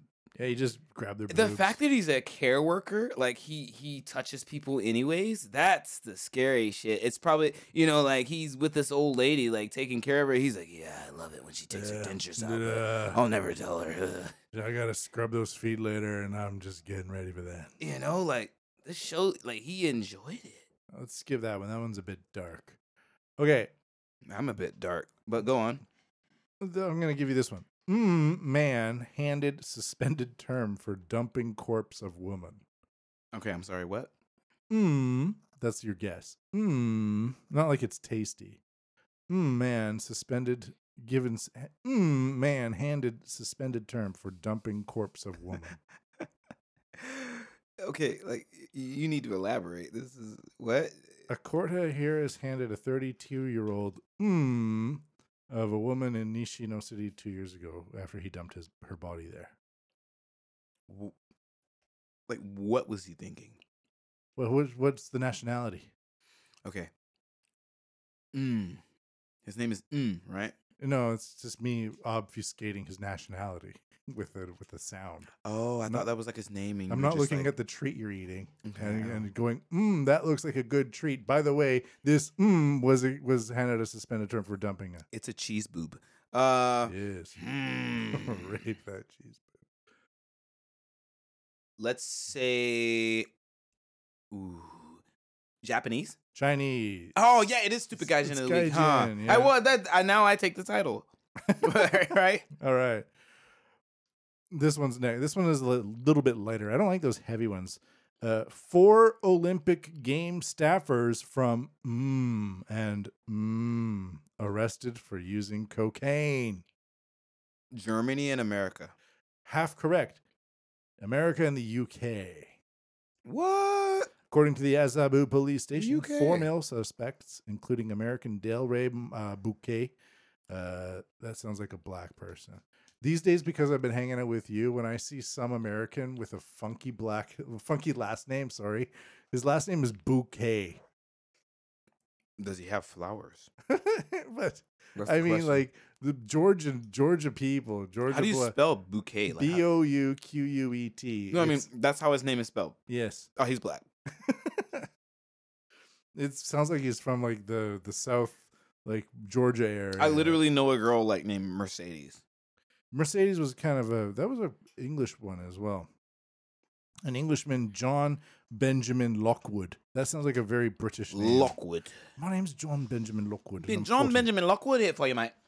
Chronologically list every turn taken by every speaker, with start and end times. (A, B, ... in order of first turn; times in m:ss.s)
0:00.4-0:01.8 A
0:01.3-0:14.4 B
0:11.7-0:13.2 A
0:14.5-0:17.7 A
0:17.8-0:20.6 B
0:20.9-0:22.8 A
0:23.4-0:23.7 A
0:24.2-0:25.8 B
0:26.6-0:32.6 A
0:33.3-0:34.1 B
0:34.7-0:38.6 A
0:39.3-0:45.8 A
0:47.0-0:51.1 B
0:51.3-0:59.5 A
1:00.9-1:01.1 B
1:02.3-1:03.6 B
1:04.4-1:05.9 A
1:06.6-1:06.9 B
1:08.3-1:08.8 B
1:09.4-1:10.5 B
1:10.8-1:15.3 A
1:15.4-1:17.5 B
1:16.9-1:25.0 A
1:18.6-1:19.3 B
1:25.1-1:28.6 B
1:26.8-1:27.4 A
1:28.1-1:29.6 A
1:31.8-1:33.3 B
1:34.3-1:35.0 B
1:35.6-1:36.2 B
1:36.3-1:37.3 A
1:37.1-1:42.4 B
1:38.0-1:39.5 A
1:41.5-1:42.0 A
1:42.6-1:43.1 A
1:44.5-1:56.6 A
1:57.7-1:58.9 B
1:59.4-2:00.2 A
2:01.0-2:02.5 A
2:03.2-2:04.1 B
2:04.3-2:09.9 A
2:05.8-2:06.5 B
2:10.5-2:20.8 A
2:22.4-2:23.5 B
2:23.7-2:28.5 A
2:25.0-2:25.6 B
2:28.1-2:29.6 B
2:29.3-2:31.6 A
2:31.3-2:32.8 B
2:32.9-2:33.3 A
2:33.4-2:33.8 B
2:34.2-2:34.9 A
2:36.1-2:40.4 A
2:40.0-2:42.2 B
2:42.9-2:45.9 A
2:47.0-2:51.5 A
2:51.1-2:52.0 B
2:52.2-2:54.3 A
2:53.6-2:55.3 B